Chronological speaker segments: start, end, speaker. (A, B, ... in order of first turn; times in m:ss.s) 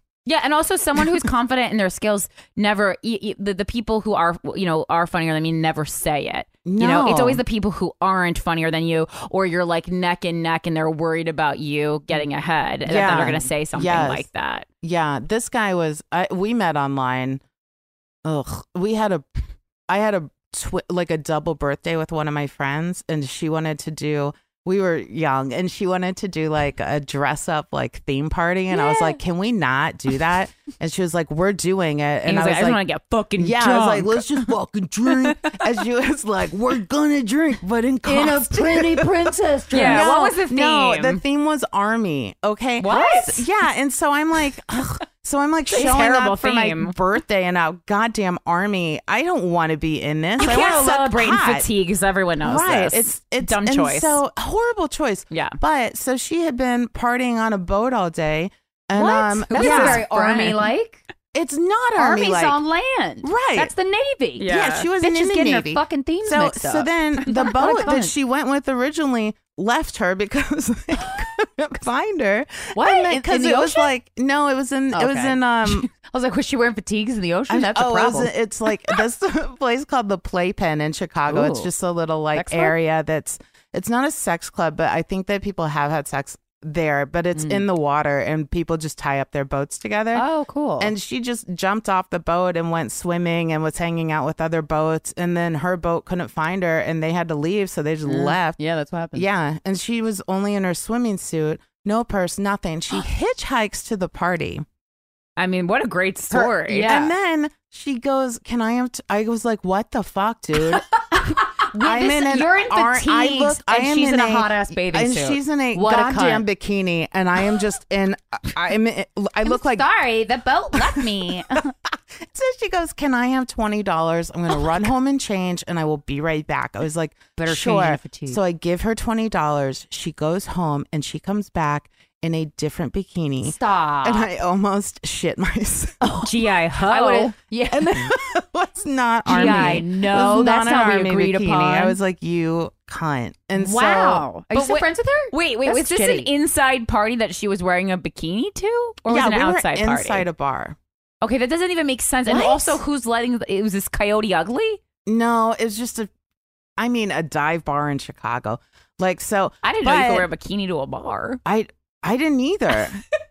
0:00.3-0:14.7 A
0:06.6-0:07.4 B
0:12.9-0:14.3 B
0:12.9-0:13.5 C
0:14.8-0:17.4 B
0:18.2-0:19.2 B
0:19.9-0:32.8 B
0:28.7-0:29.2 C
0:32.3-0:34.5 A
0:33.4-0:51.7 B
0:35.0-0:35.8 A
0:38.0-0:40.1 C
0:39.7-0:41.2 A
0:42.8-0:43.4 A
0:42.9-0:43.2 C
0:45.7-0:47.0 A
0:50.4-0:54.2 A
0:52.4-1:00.1 B
0:55.3-0:55.6 A
0:58.9-1:01.0 C
0:59.5-1:00.7 A
1:01.3-1:02.6 B
1:02.0-1:08.1 C
1:03.2-1:03.7 B
1:04.4-1:04.9 A
1:04.5-1:15.9 B
1:07.4-1:07.9 A
1:12.8-1:13.9 C
1:14.9-1:18.3 C
1:17.5-1:30.2 B
1:21.3-1:21.7 C
1:22.3-1:22.8 C
1:27.4-1:27.6 C
1:30.1-1:30.9 C
1:30.8-1:38.6 B
1:38.0-1:39.3 C
1:39.1-1:44.6 B
1:45.4-1:46.9 A
1:46.3-1:50.9 B
1:46.7-1:47.1 C
1:51.1-1:56.5 C
1:51.7-1:59.9 B
1:59.4-2:01.6 C
2:00.7-2:01.7 B
2:02.3-2:16.0 B
2:07.4-2:08.4 C
2:13.4-2:14.3 C
2:16.0-2:18.2 C
2:16.2-2:17.3 A
2:17.7-2:24.3 B
2:19.3-2:19.9 A
2:19.3-2:22.0 C
2:23.6-2:26.3 C
2:24.5-2:30.3 A
2:29.1-2:30.8 B
2:31.2-2:34.8 A
2:32.3-2:32.8 C
2:35.1-2:36.1 B
2:36.8-2:40.3 B
2:39.6-2:41.4 A
2:41.4-2:43.0 B